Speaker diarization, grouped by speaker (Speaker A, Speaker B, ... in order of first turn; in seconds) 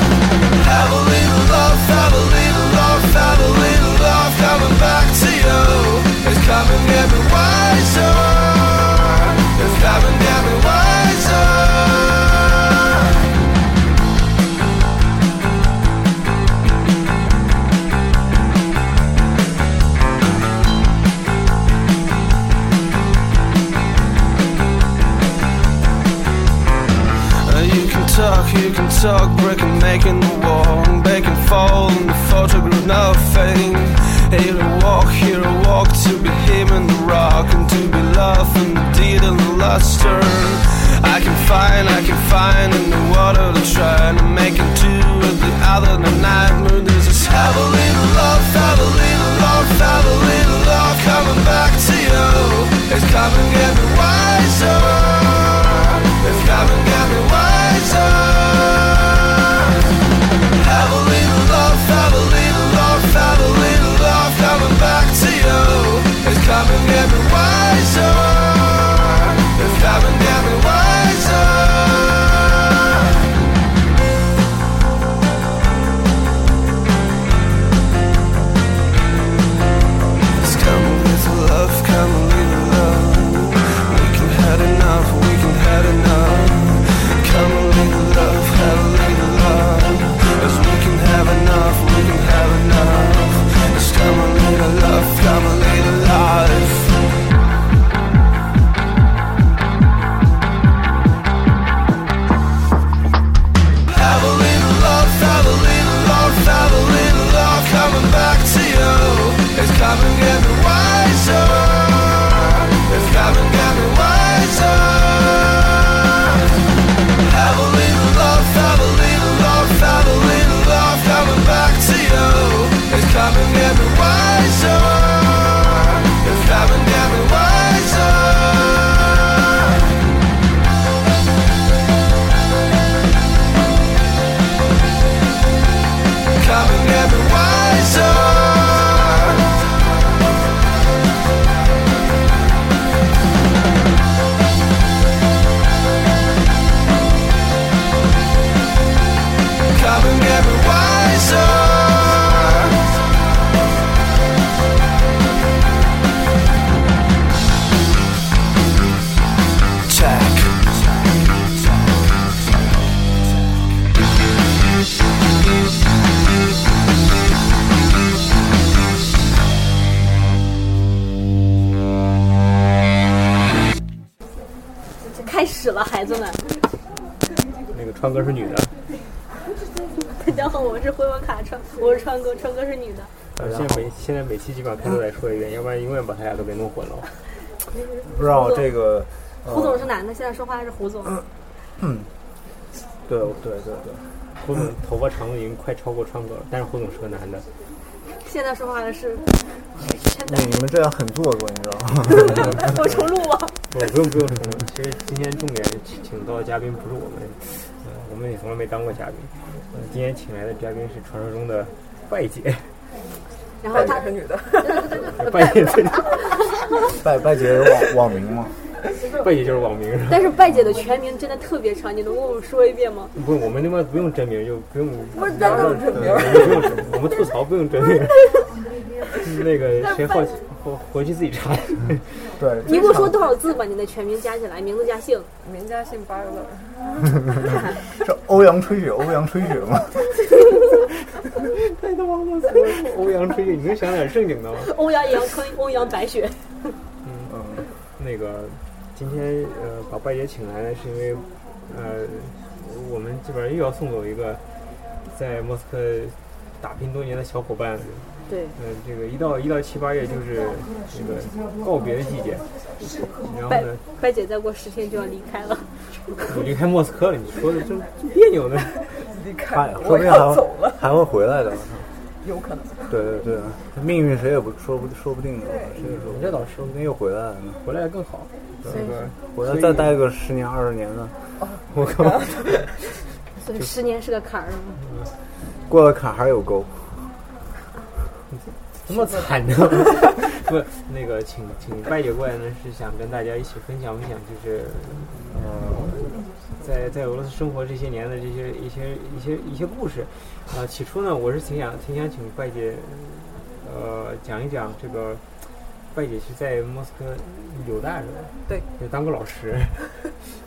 Speaker A: 0.5-12.8, 27.4-59.8, 60.5-73.1, 80.3-97.0, 103.9-116.5, 117.2-129.7, 136.4-139.5, 149.7-153.0, 159.8-163.7
Speaker B: 175.1-176.5, 180.0-183.1, 187.7-188.7, 189.4-191.2, 198.2-200.6, 202.1-203.6, 213.6-216.9, 220.1-223.1, 225.4-226.3, 228.1-228.5, 229.7-230.4, 232.6-235.3, 237.4-237.8, 240.2-240.6, 244.6-246.7, 258.3-258.6, 262.9-266.4, 278.7-279.1, 283.4-284.8
Speaker C: 177.7-178.7, 183.4-187.1, 194.4-197.4, 202.4-203.0, 203.7-212.7, 215.2-216.1, 219.2-220.3, 223.1-228.2, 229.2-232.4, 241.6-244.7, 247.0-247.3, 248.0-254.4, 255.1-258.0, 258.6-262.4, 263.2-263.8, 266.2-268.9, 275.8-276.8, 277.6-280.0, 281.7-282.2, 284.8-285.1, 288.8-305.2, 305.9-310.1
Speaker D: 183.4-183.9, 188.1-189.9, 191.8-192.1, 193.1-194.1, 200.2-202.7, 216.9-218.5, 225.9-226.7, 232.4-233.2, 238.0-240.0, 247.3-247.7, 269.5-271.9, 272.9-277.6, 279.3-281.1, 285.7-286.9
Speaker E: 213.7-215.2, 225.1-226.8, 235.4-236.7, 269.0-270.8, 272.2-273.0, 275.4-275.7, 281.4-282.6, 288.9-289.4